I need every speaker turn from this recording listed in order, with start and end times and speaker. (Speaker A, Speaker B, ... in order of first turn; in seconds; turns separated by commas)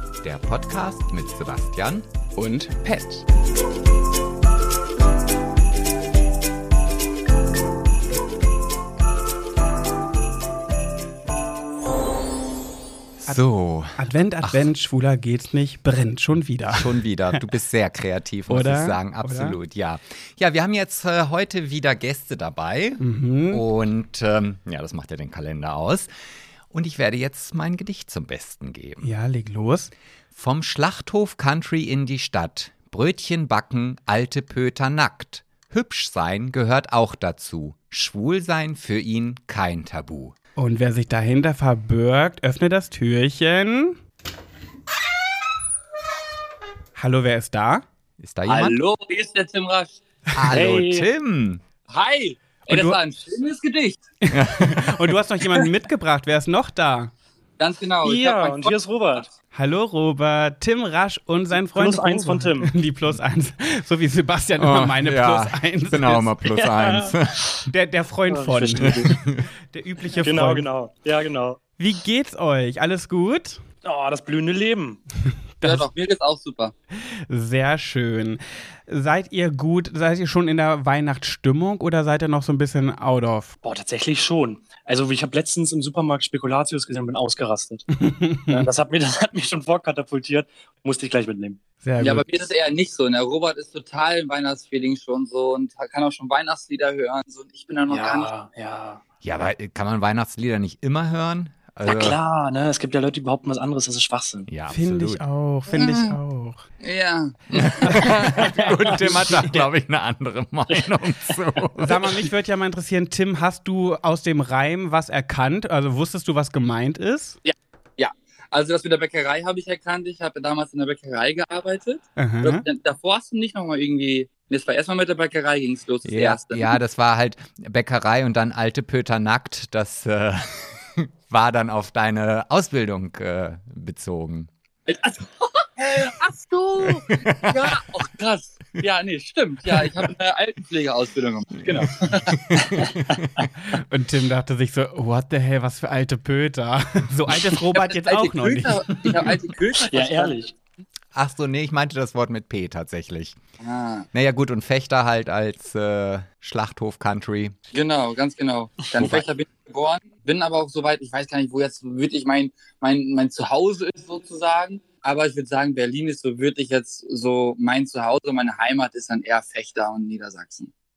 Speaker A: 0.2-2.0, Speaker B: 2.4-3.2, Speaker A: 13.2-14.7, Speaker B: 13.3-17.4, Speaker A: 16.7-26.1, Speaker B: 18.5-19.6, Speaker B: 23.0-23.6, Speaker A: 26.7-29.1, Speaker B: 29.0-29.9, Speaker A: 30.3-40.3, Speaker B: 40.5-44.0, Speaker B: 47.0-47.8, Speaker A: 48.2-48.8, Speaker C: 48.5-50.0, Speaker A: 50.3-51.6, Speaker D: 50.5-51.1, Speaker C: 51.9-54.0, Speaker B: 52.7-53.0, Speaker B: 54.2-57.1, Speaker A: 54.3-54.9, Speaker C: 57.6-59.3, Speaker D: 58.0-59.3, Speaker B: 59.5-66.3, Speaker D: 61.5-62.7, Speaker A: 64.6-67.5, Speaker D: 66.5-67.6, Speaker B: 67.7-69.2, Speaker D: 68.3-69.1, Speaker B: 69.7-70.7, Speaker D: 70.2-71.6, Speaker B: 71.8-73.6, Speaker D: 73.8-75.0, Speaker B: 75.6-75.9, Speaker C: 75.6-76.7, Speaker B: 77.3-83.5, Speaker D: 83.6-87.9, Speaker B: 87.9-88.7, Speaker D: 88.5-91.6, Speaker B: 91.8-92.2, Speaker C: 92.0-98.3, Speaker D: 97.9-99.0, Speaker A: 99.2-102.2, Speaker D: 101.8-104.5, Speaker A: 104.5-105.2, Speaker B: 104.7-106.6, Speaker C: 105.7-106.2, Speaker C: 106.8-108.1, Speaker A: 107.7-112.2, Speaker B: 107.8-108.4, Speaker D: 108.5-109.7, Speaker D: 110.7-111.3, Speaker B: 111.8-117.4, Speaker C: 117.5-126.8, Speaker B: 122.2-122.6, Speaker A: 126.0-134.5, Speaker C: 134.9-142.3, Speaker A: 136.9-137.5, Speaker A: 139.8-140.1, Speaker A: 142.3-143.4, Speaker B: 143.6-148.8, Speaker C: 147.7-150.4, Speaker D: 149.8-150.5, Speaker A: 151.1-153.4, Speaker C: 153.6-154.1, Speaker A: 154.1-157.5, Speaker C: 157.7-170.7, Speaker A: 159.0-159.3